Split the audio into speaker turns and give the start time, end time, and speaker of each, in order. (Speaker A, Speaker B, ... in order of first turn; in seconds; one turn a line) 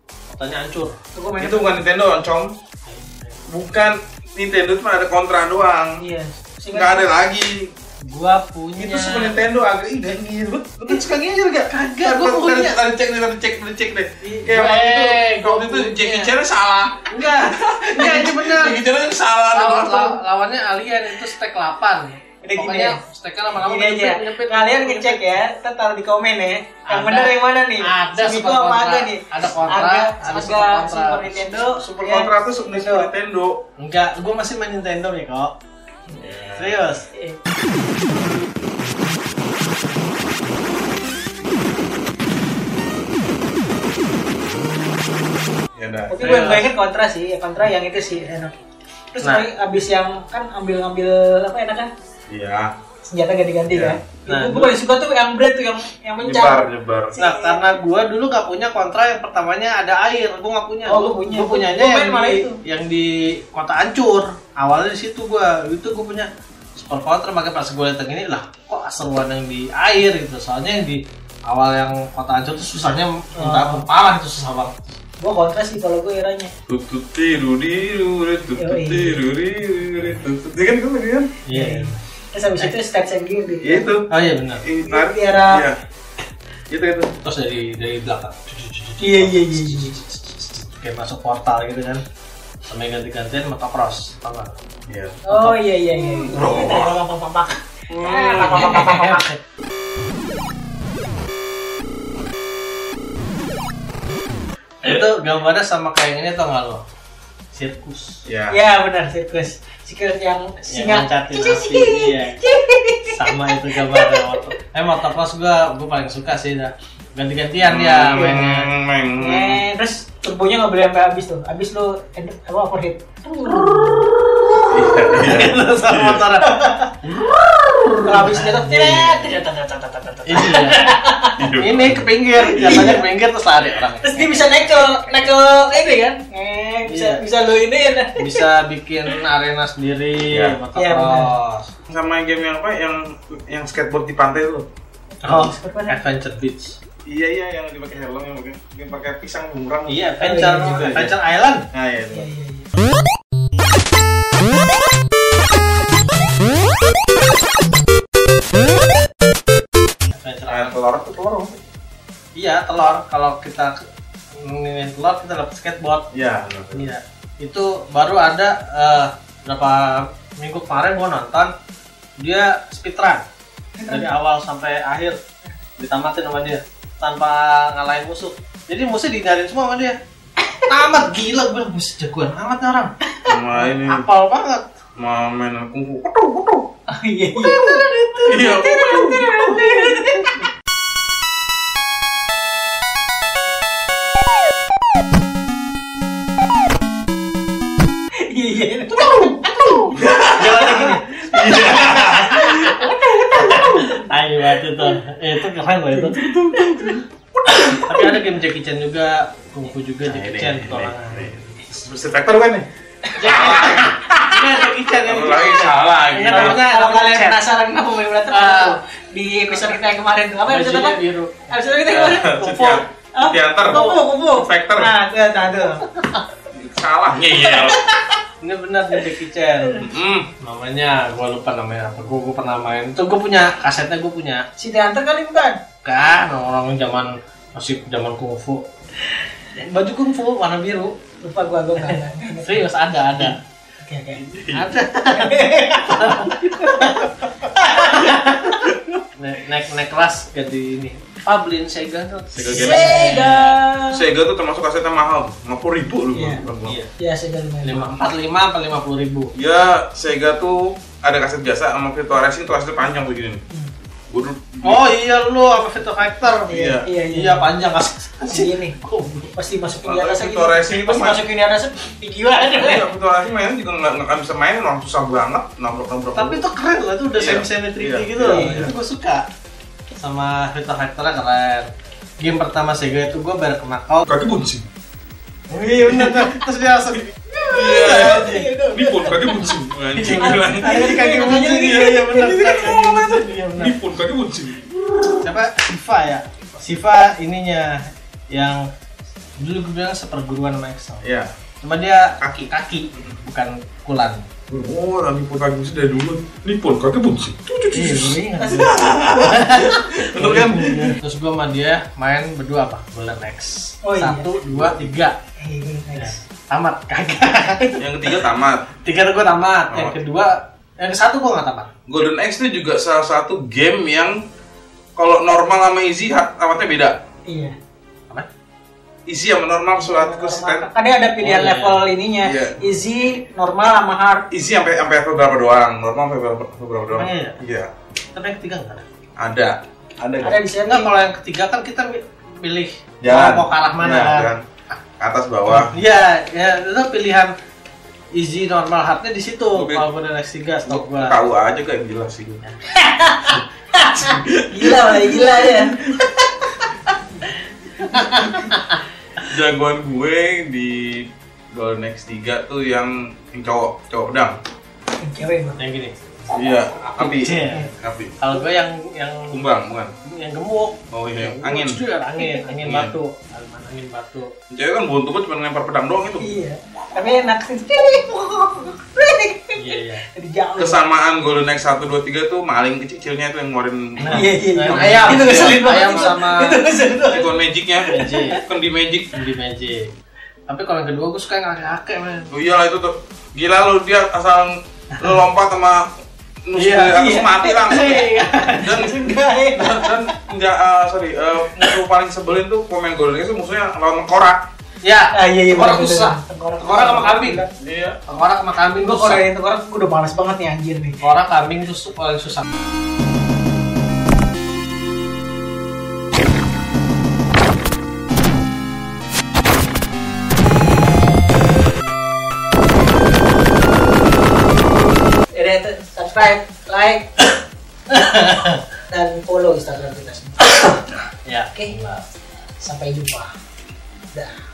Speaker A: 0.3-1.0
Speaker B: 1.1-1.8
Speaker C: 1.4-2.5
Speaker A: 2.9-3.4
Speaker C: 3.5-6.0
Speaker B: 6.0-7.2
Speaker C: 6.7-7.7
Speaker A: 8.0-9.4
Speaker C: 8.8-20.2
Speaker A: 11.7-12.8
Speaker A: 14.2-16.3
Speaker A: 17.1-18.8
Speaker A: 19.5-25.4
Speaker B: 22.4-23.0
Speaker B: 23.6-33.1
Speaker A: 26.8-31.8
Speaker C: 31.8-33.6
Speaker A: 33.8-35.6
Speaker C: 36.1-36.9
Speaker A: 36.5-37.1
Speaker C: 45.8-46.2
Speaker B: 46.1-48.5
Speaker A: 46.2-46.7
Speaker B: 49.1-51.9
Speaker A: 49.2-49.5
Speaker C: 52.3-52.7
Speaker B: 53.0-57.8
Speaker C: 53.7-54.0
Speaker A: 54.3-54.8
Speaker C: 56.2-57.2
Speaker A: 57.2-75.0
Speaker B: 60.9-62.6
Speaker B: 73.4-73.8
Speaker B: 75.2-76.5
Speaker C: 76.7-81.3
Speaker B: 78.6-79.2
Speaker A: 80.0-80.2
Speaker A: 81.4-82.0
Speaker B: 81.5-83.9
Speaker C: 83.6-85.8
Speaker A: 84.1-84.7
Speaker B: 84.8-85.7
Speaker C: 86.7-87.2
Speaker A: 87.2-92.0
Speaker B: 89.0-90.0
Speaker A: 92.6-94.6
Speaker C: 94.9-95.2
Speaker A: 95.3-96.0
Speaker B: 95.3-99.3
Speaker C: 96.2-97.0
Speaker C: 97.9-98.8
Speaker A: 98.4-99.4
Speaker A: 104.8-106.8
Speaker A: 107.5-108.2
Speaker C: 108.3-108.6
Speaker B: 108.5-114.3
Speaker A: 110.7-112.4
Speaker A: 113.0-118.7
Speaker C: 117.6-119.6
Speaker B: 119.2-124.1
Speaker C: 124.7-126.3
Speaker A: 125.1-129.3
Speaker B: 126.4-127.0
Speaker B: 128.0-131.3
Speaker A: 130.2-130.9
Speaker C: 131.4-133.0
Speaker A: 131.5-135.3
Speaker B: 132.4-133.0
Speaker B: 134.0-138.5
Speaker A: 136.8-137.3
Speaker A: 138.2-141.7
Speaker C: 140.3-140.6
Speaker B: 140.8-141.3
Speaker C: 141.9-144.7
Speaker B: 145.2-146.0
Speaker A: 145.2-146.8
Speaker C: 147.1-150.1
Speaker A: 149.9-151.7
Speaker B: 150.2-150.9
Speaker C: 150.7-151.1
Speaker C: 151.7-152.3
Speaker B: 152.1-152.7
Speaker A: 160.1-160.8
Speaker C: 160.5-161.6
Speaker A: 162.4-163.7
Speaker A: 164.3-166.2
Speaker C: 166.1-166.9
Speaker A: 166.7-171.5
Speaker A: 172.2-173.2
Speaker B: 173.8-174.1
Speaker A: 173.9-175.2
Speaker A: 175.8-180.0
Speaker A: 180.6-182.9
Speaker C: 183.3-184.1
Speaker A: 183.5-184.7
Speaker C: 185.0-186.7
Speaker B: 186.9-190.3
Speaker A: 187.4-188.8
Speaker C: 188.2-189.3
Speaker A: 189.3-190.3
Speaker B: 198.2-199.9
Speaker C: 199.2-200.7
Speaker A: 200.3-206.3
Speaker B: 200.5-204.1
Speaker C: 201.3-202.8
Speaker C: 206.1-207.7
Speaker B: 206.5-207.0
Speaker A: 207.5-211.6
Speaker C: 210.1-212.7
Speaker A: 213.1-217.5
Speaker B: 213.2-214.0
Speaker C: 213.3-213.9
Speaker C: 215.0-216.6
Speaker B: 216.3-225.9
Speaker A: 218.3-218.8
Speaker A: 219.5-219.8
Speaker A: 220.5-222.8
Speaker C: 221.9-224.9
Speaker A: 223.7-224.1
Speaker A: 225.6-226.3
Speaker C: 226.5-227.9
Speaker B: 227.3-228.0
Speaker A: 228.4-229.9
Speaker B: 229.6-229.9
Speaker C: 229.8-230.3
Speaker A: 230.4-234.4
Speaker B: 234.6-235.6
Speaker A: 235.8-238.7
Speaker A: 239.5-241.0
Speaker B: 241.2-243.3
Speaker A: 241.8-243.4
Speaker B: 243.8-244.2
Speaker C: 244.2-244.7
Speaker A: 244.5-253.6
Speaker B: 245.1-247.9
Speaker C: 252.3-253.1
Speaker B: 252.5-254.0
Speaker C: 253.9-256.8
Speaker B: 256.1-256.4
Speaker A: 256.6-256.9
Speaker B: 257.0-257.9
Speaker A: 257.6-259.3
Speaker C: 259.4-263.4
Speaker C: 264.1-264.9
Speaker A: 264.6-269.4
Speaker C: 266.5-266.9
Speaker B: 266.5-267.5
Speaker B: 268.3-268.8
Speaker B: 269.4-272.9
Speaker C: 269.8-271.2
Speaker C: 272.5-276.4
Speaker A: 276.1-279.3
Speaker C: 277.1-278.7
Speaker B: 278.2-278.7
Speaker A: 280.0-281.7
Speaker A: 282.2-284.1
Speaker C: 284.1-284.6
Speaker A: 285.5-289.4
Speaker B: 287.3-289.6
Speaker C: 287.5-290.8
Speaker A: 289.9-293.8
Speaker B: 290.1-293.3
Speaker C: 293.6-294.7
Speaker A: 295.2-298.7
Speaker A: 299.4-301.1
Speaker C: 301.0-301.3
Speaker A: 301.6-304.2
Speaker C: 302.2-303.1
Speaker C: 304.5-310.9
Speaker A: 307.7-315.2
Speaker B: 308.4-308.8
Speaker B: 313.9-314.3
Speaker C: 314.5-315.0
Speaker B: 315.4-316.2
Speaker A: 315.9-318.2
Speaker C: 317.8-318.6
Speaker A: 318.8-321.7
Speaker C: 319.7-320.0
Speaker C: 321.9-324.1
Speaker C: 325.0-327.0
Speaker B: 327.3-327.5
Speaker C: 329.1-330.7
Speaker B: 329.7-334.3
Speaker A: 331.2-331.9
Speaker C: 332.2-332.6
Speaker C: 334.3-337.7
Speaker A: 336.9-337.4
Speaker A: 338.1-338.9
Speaker C: 339.2-340.4
Speaker B: 340.2-341.0
Speaker A: 340.6-344.3
Speaker C: 343.0-344.4
Speaker C: 345.0-345.8
Speaker A: 345.4-347.3
Speaker A: 348.1-351.2
Speaker C: 349.5-349.9
Speaker C: 350.7-352.4
Speaker B: 352.8-356.1
Speaker C: 354.0-356.0
Speaker A: 357.8-358.8
Speaker C: 359.2-364.4
Speaker B: 365.0-365.6
Speaker A: 365.6-366.0
Speaker C: 366.3-368.4
Speaker A: 366.8-374.3
Speaker C: 369.3-369.9
Speaker C: 370.9-371.8
Speaker B: 372.2-372.5
Speaker C: 372.6-372.9
Speaker C: 374.5-376.3
Speaker B: 376.2-380.8
Speaker A: 379.6-380.1
Speaker C: 380.6-386.1
Speaker A: 384.0-386.6
Speaker B: 384.1-387.4
Speaker C: 387.1-389.2
Speaker A: 387.9-388.4
Speaker B: 388.0-388.4
Speaker A: 389.1-389.9
Speaker A: 390.5-392.4
Speaker C: 392.3-395.9
Speaker C: 396.5-398.1
Speaker A: 396.6-396.9
Speaker B: 396.9-400.1
Speaker A: 397.7-398.7
Speaker C: 398.6-404.4
Speaker A: 401.5-401.8
Speaker A: 404.8-407.4
Speaker B: 405.1-407.5
Speaker C: 407.6-408.0
Speaker A: 408.1-409.3
Speaker B: 408.8-411.0
Speaker A: 411.0-412.5
Speaker B: 425.4-427.1
Speaker A: 427.9-428.6
Speaker B: 428.9-430.5
Speaker A: 430.4-432.1
Speaker B: 432.6-433.3